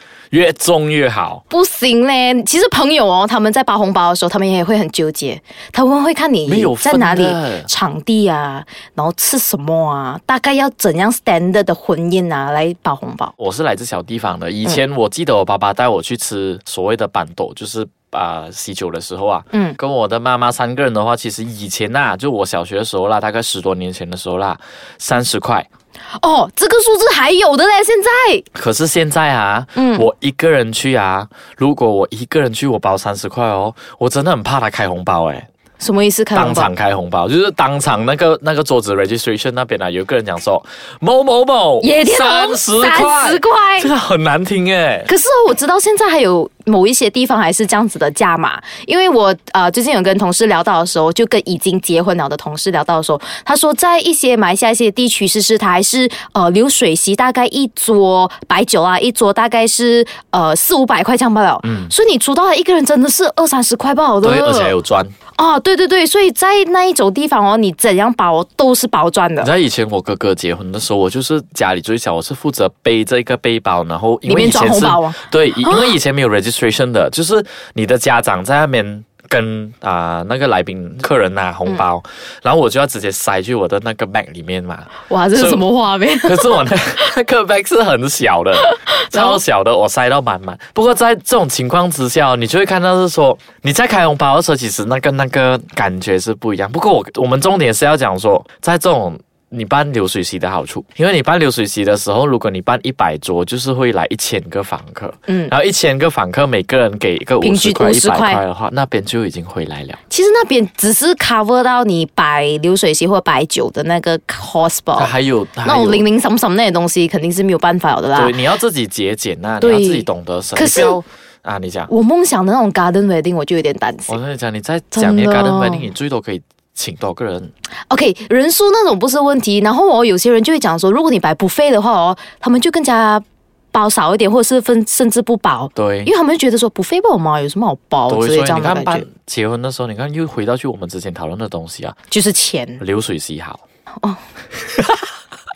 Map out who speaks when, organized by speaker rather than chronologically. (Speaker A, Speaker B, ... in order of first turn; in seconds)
Speaker A: 0.3-1.4, 6.5-7.7, 13.4-25.7, 28.5-35.5, 36.3-45.1, 61.6-61.9, 64.2-65.1, 69.4-85.6, 86.2-110.0, 115.0-116.0, 118.1-121.9, 124.1-127.5, 135.8-136.1, 138.1-141.9, 142.8-143.6, 144.6-145.1
Speaker B: 1.5-13.3, 19.5-19.8, 26.2-28.4, 29.8-30.1, 35.8-36.7, 41.8-43.9, 45.0-64.7, 65.3-69.5, 74.2-75.9, 85.0-86.6, 88.7-89.4, 105.3-105.5, 107.4-108.4, 110.1-115.1, 115.6-118.3, 119.6-121.0, 121.9-124.2, 124.9-125.9, 127.9-139.1, 142.1-142.8